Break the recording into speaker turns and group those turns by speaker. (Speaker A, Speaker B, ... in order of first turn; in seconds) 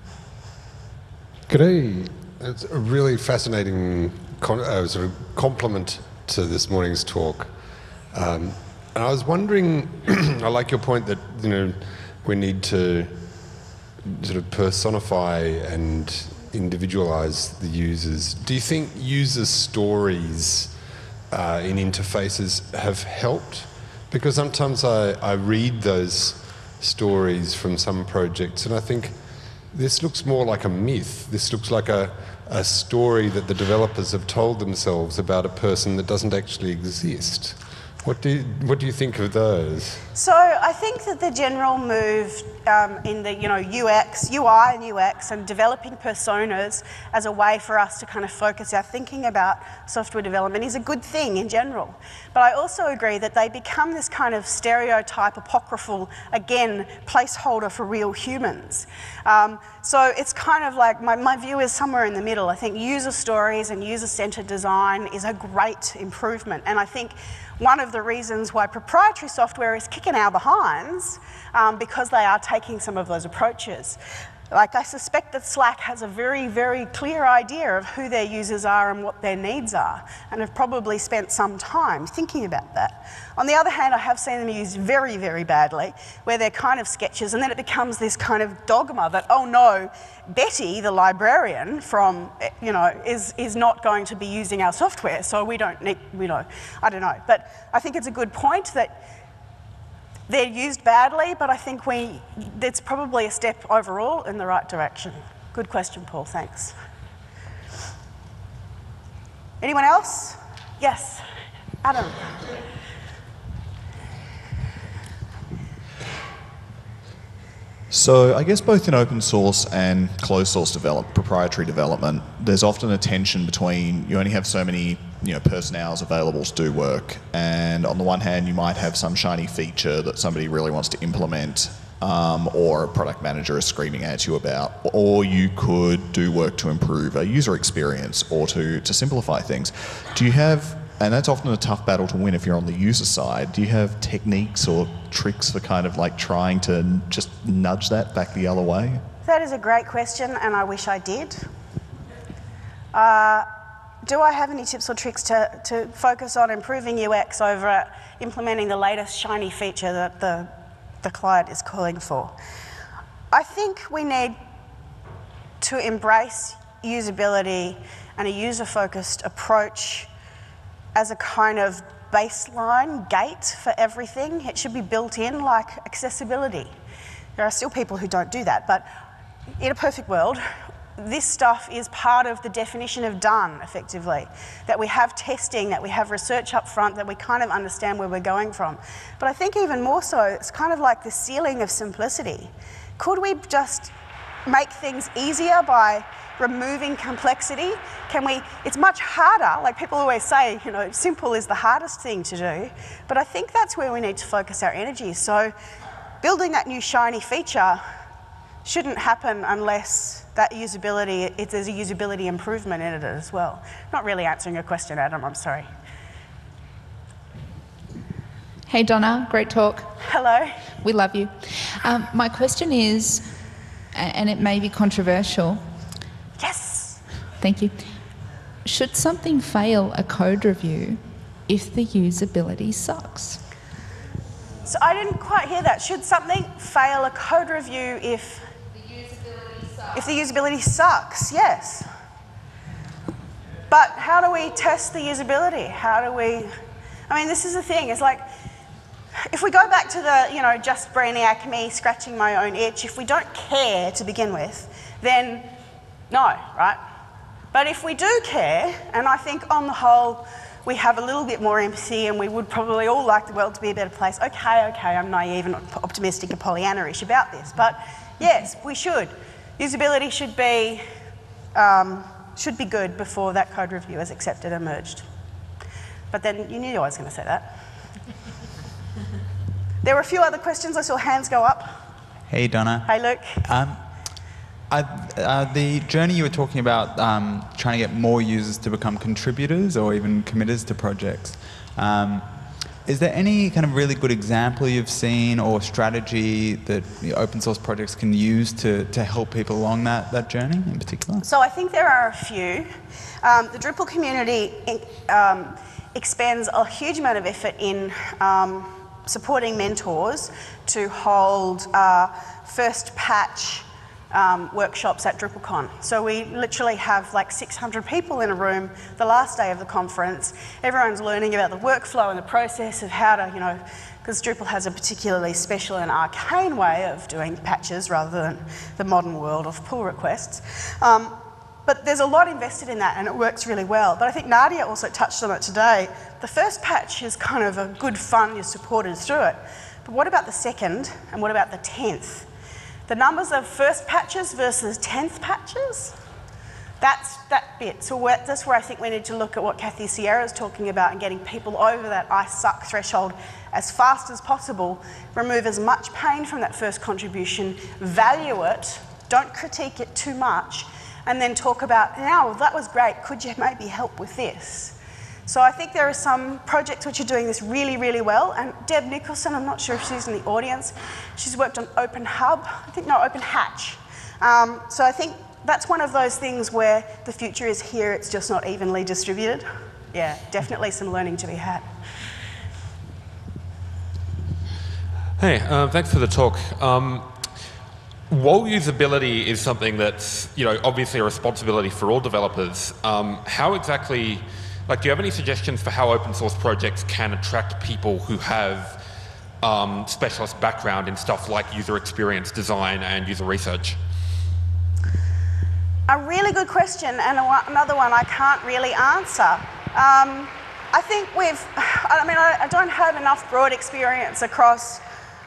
Speaker A: 1.5-7.5, 8.1-13.5, 14.0-20.7, 21.3-40.0
Speaker B: 40.1-74.0, 74.5-99.0, 100.3-106.7, 109.6-111.2, 111.8-112.4, 149.2-151.4, 152.9-153.5, 154.0-160.5, 161.0-162.3, 163.3-164.4, 165.6-170.1, 170.9-176.7, 177.4-178.9, 179.6-180.4, 181.0-193.9, 194.4-205.5, 206.2-207.8, 208.6-215.7, 220.0-220.5, 226.4-227.0, 234.7-238.5, 239.9-241.8, 243.7-246.5, 247.1-248.2, 249.3-255.5, 256.1-256.8, 257.5-270.8, 271.5-275.0, 276.1-277.5, 279.8-281.8, 282.9-283.4, 301.2-342.3, 342.9-345.9, 346.8-381.6, 405.9-414.8
Speaker C: 117.9-149.0
Speaker D: 218.7-219.9, 220.8-223.2, 223.9-225.6, 227.4-227.8, 228.6-233.4
Speaker E: 282.3-283.8, 284.7-292.3, 292.8-301.2
Speaker F: 385.2-387.4, 388.1-398.8, 399.4-403.8